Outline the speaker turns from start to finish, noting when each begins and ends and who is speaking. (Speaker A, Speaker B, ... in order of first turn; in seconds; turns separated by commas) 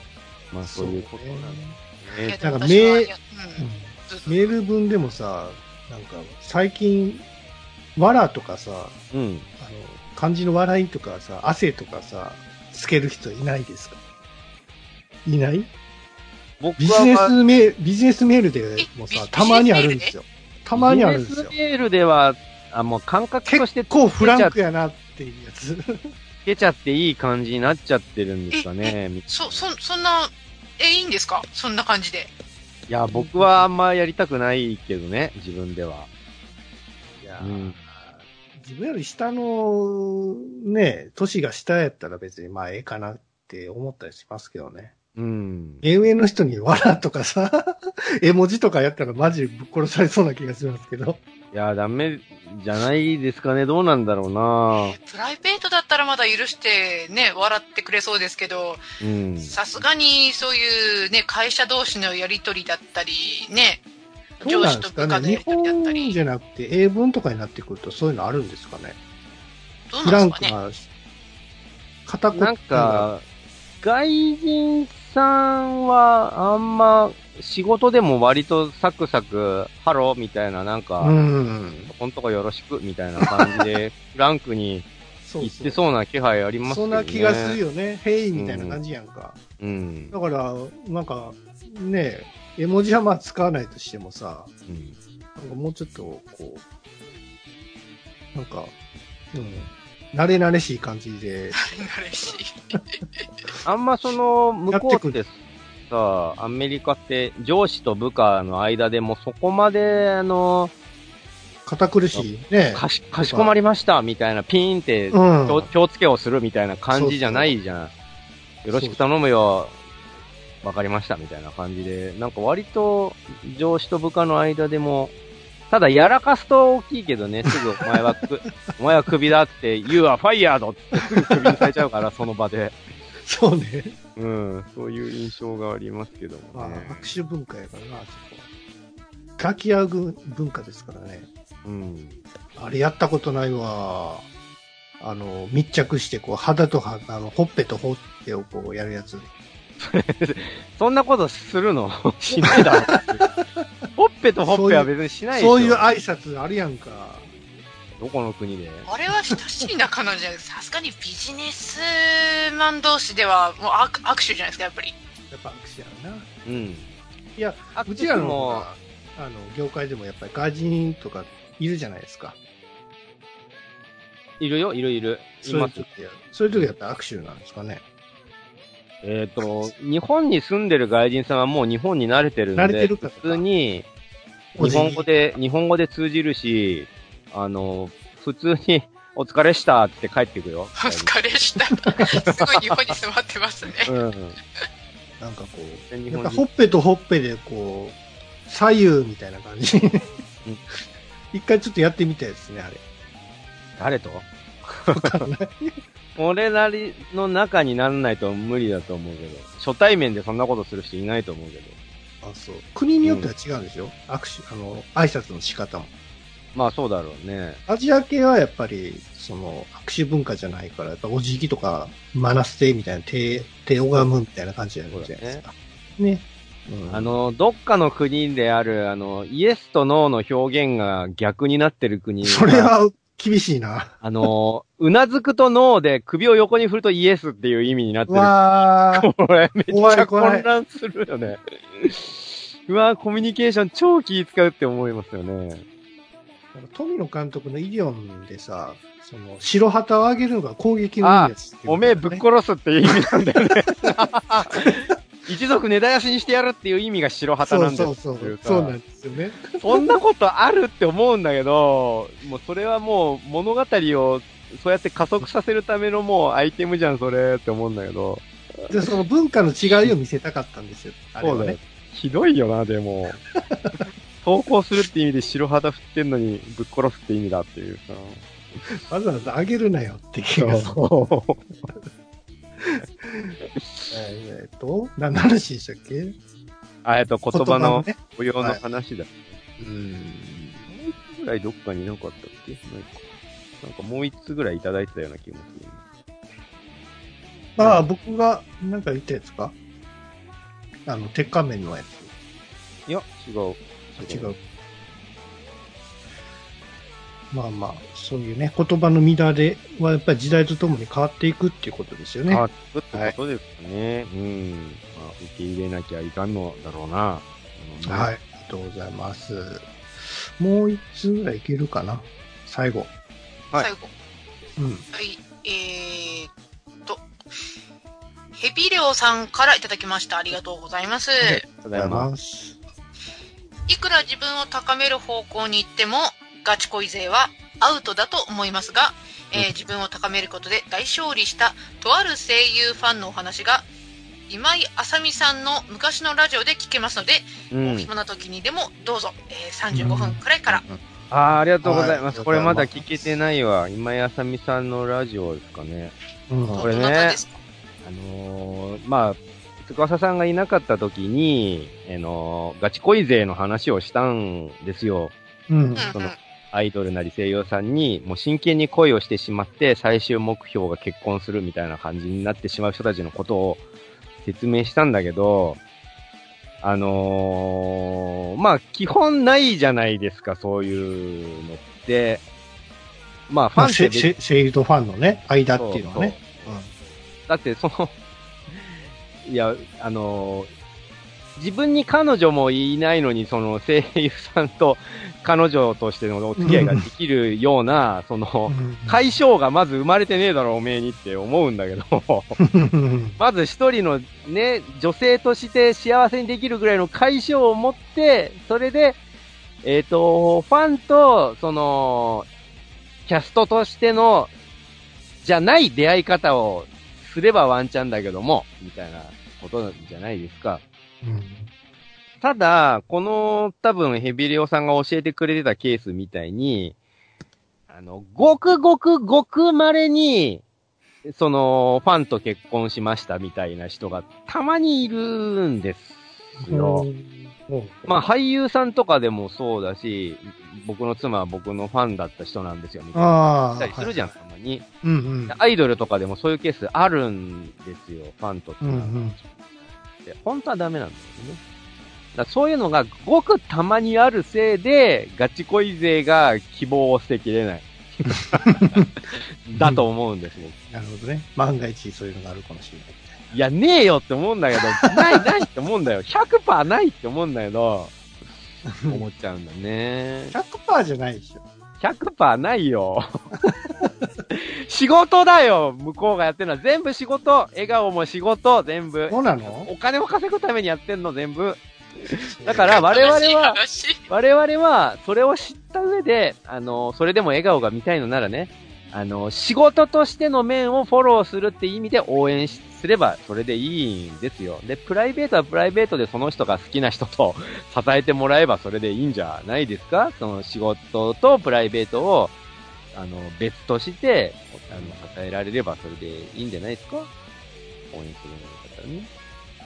Speaker A: 0.5-2.4, Speaker B: 0.6-1.8, Speaker C: 2.2-4.5, Speaker B: 2.4-7.2, Speaker B: 8.0-8.9, Speaker A: 9.1-9.5, Speaker B: 9.6-14.0, Speaker B: 15.2-15.7, Speaker A: 16.6-17.3, Speaker B: 16.8-21.5, Speaker C: 18.8-20.1, Speaker A: 20.7-24.6, Speaker B: 23.4-26.1, Speaker A: 26.4-29.7, Speaker C: 28.5-32.3, Speaker A: 32.9-36.1, Speaker B: 33.1-33.6, Speaker B: 37.2-44.9, Speaker A: 37.4-37.8, Speaker A: 45.2-45.8, Speaker B: 45.8-51.2, Speaker A: 51.5-55.0, Speaker C: 54.7-58.9, Speaker A: 59.0-59.5, Speaker C: 59.5-63.8, Speaker C: 64.4-66.1, Speaker B: 64.4-69.0, Speaker C: 69.9-70.5, Speaker B: 70.0-70.9, Speaker B: 72.1-73.1, Speaker A: 72.3-73.2, Speaker A: 73.8-81.1, Speaker B: 81.0-81.9, Speaker A: 81.9-84.9, Speaker B: 83.3-83.6, Speaker B: 85.2-85.8, Speaker A: 85.4-87.6, Speaker B: 86.7-89.4, Speaker A: 88.3-88.8, Speaker A: 89.6-90.1, Speaker B: 90.1-94.5, Speaker A: 94.7-95.0, Speaker B: 95.4-96.6, Speaker B: 98.3-98.7, Speaker B: 99.3-101.6, Speaker C: 101.5-103.3, Speaker A: 103.6-110.7, Speaker B: 104.7-105.2, Speaker B: 111.7-113.5, Speaker A: 112.1-117.9, Speaker B: 115.1-115.7, Speaker B: 116.9-117.5, Speaker A: 118.6-119.8, Speaker B: 118.7-119.0, Speaker A: 120.6-125.1, Speaker A: 125.7-132.8, Speaker B: 130.9-131.7, Speaker B: 133.2-133.9, Speaker A: 134.2-137.1, Speaker B: 136.5-138.4, Speaker B: 139.4-141.3, Speaker A: 141.6-142.2, Speaker B: 142.6-144.3, Speaker B: 145.0-149.3, Speaker A: 149.8-153.2, Speaker B: 152.5-153.6, Speaker A: 153.9-155.9, Speaker B: 154.4-157.3, Speaker A: 158.0-158.9, Speaker C: 158.9-164.9, Speaker B: 165.3-166.3, Speaker A: 166.4-166.9, Speaker B: 167.4-172.4, Speaker A: 167.7-168.7, Speaker A: 174.4-175.8, Speaker B: 175.4-177.8, Speaker A: 179.0-183.9, Speaker B: 182.6-183.4, Speaker B: 184.6-185.1, Speaker A: 184.6-191.1, Speaker C: 190.8-193.9, Speaker A: 192.1-192.6, Speaker A: 193.9-194.4, Speaker B: 195.2-200.2, Speaker A: 195.9-196.4, Speaker B: 201.3-202.8, Speaker A: 203.8-205.2, Speaker B: 204.9-205.8, Speaker A: 206.2-211.7, Speaker B: 212.2-215.9, Speaker A: 213.0-213.3, Speaker A: 216.6-217.6, Speaker B: 217.7-227.2, Speaker A: 224.9-225.4, Speaker A: 226.9-232.7, Speaker B: 232.2-234.3, Speaker A: 234.0-238.3, Speaker B: 238.1-239.1, Speaker A: 238.9-245.6, Speaker B: 239.7-240.4, Speaker B: 246.5-252.2, Speaker A: 251.0-258.7, Speaker B: 257.4-259.9, Speaker A: 259.6-268.7, Speaker B: 268.7-271.6, Speaker A: 271.2-273.2, Speaker B: 273.3-273.8, Speaker A: 274.2-278.2, Speaker B: 278.9-280.8, Speaker A: 280.4-281.4, Speaker B: 282.6-283.4, Speaker A: 283.6-283.9, Speaker B: 283.9-286.1, Speaker A: 286.9-289.4, Speaker B: 287.3-288.6, Speaker B: 289.6-290.7, Speaker A: 290.7-293.0, Speaker A: 293.6-295.8, Speaker B: 297.6-299.5, Speaker A: 297.6-297.9, Speaker B: 300.9-302.1, Speaker A: 302.9-304.3, Speaker B: 303.9-304.4, Speaker B: 307.3-313.1, Speaker A: 312.3-318.1, Speaker B: 317.9-319.7, Speaker B: 320.4-322.9, Speaker C: 323.6-323.9, Speaker B: 324.6-324.8, Speaker C: 324.9-326.3, Speaker C: 328.4-331.4, Speaker A: 331.2-332.1, Speaker B: 331.7-332.6, Speaker C: 333.7-343.7, Speaker C: 344.3-350.6, Speaker A: 347.5-347.9, Speaker B: 349.7-350.8, Speaker A: 351.1-355.9, Speaker B: 351.6-353.1, Speaker B: 356.3-356.7, Speaker C: 356.6-357.4, Speaker A: 356.6-357.2, Speaker A: 357.8-365.1, Speaker B: 365.5-365.9, Speaker C: 365.8-366.2, Speaker A: 365.9-373.6, Speaker A: 374.2-375.6, Speaker A: 376.6-382.2, Speaker A: 383.3-384.1, Speaker B: 383.6-386.7, Speaker A: 385.6-386.5, Speaker A: 387.3-387.9, Speaker A: 389.2-390.5, Speaker A: 391.4-402.4, Speaker B: 396.4-396.9, Speaker B: 398.5-399.1, Speaker B: 402.4-403.2, Speaker A: 403.2-409.0, Speaker A: 409.6-412.3, Speaker A: 413.1-414.3, Speaker A: 415.2-420.6, Speaker B: 421.0-421.5, Speaker A: 422.2-426.7, Speaker A: 427.7-430.4, Speaker A: 431.1-436.9, Speaker B: 436.5-437.9, Speaker A: 437.9-444.6, Speaker B: 442.9-444.1, Speaker B: 444.8-445.4, Speaker A: 445.3-449.3, Speaker B: 448.6-449.2, Speaker A: 450.0-451.4, Speaker A: 452.1-458.9, Speaker B: 458.4-458.7, Speaker A: 459.4-460.6, Speaker B: 459.6-459.9, Speaker B: 460.7-463.2, Speaker A: 463.3-467.9, Speaker A: 468.6-470.3, Speaker B: 468.7-469.0, Speaker B: 470.3-471.4, Speaker A: 471.8-473.1, Speaker B: 473.4-473.9, Speaker A: 474.3-483.6, Speaker B: 479.1-479.7, Speaker B: 482.4-483.2, Speaker C: 482.7-484.0, Speaker A: 484.1-502.3, Speaker A: 502.9-507.1, Speaker B: 504.7-505.1, Speaker A: 507.9-509.1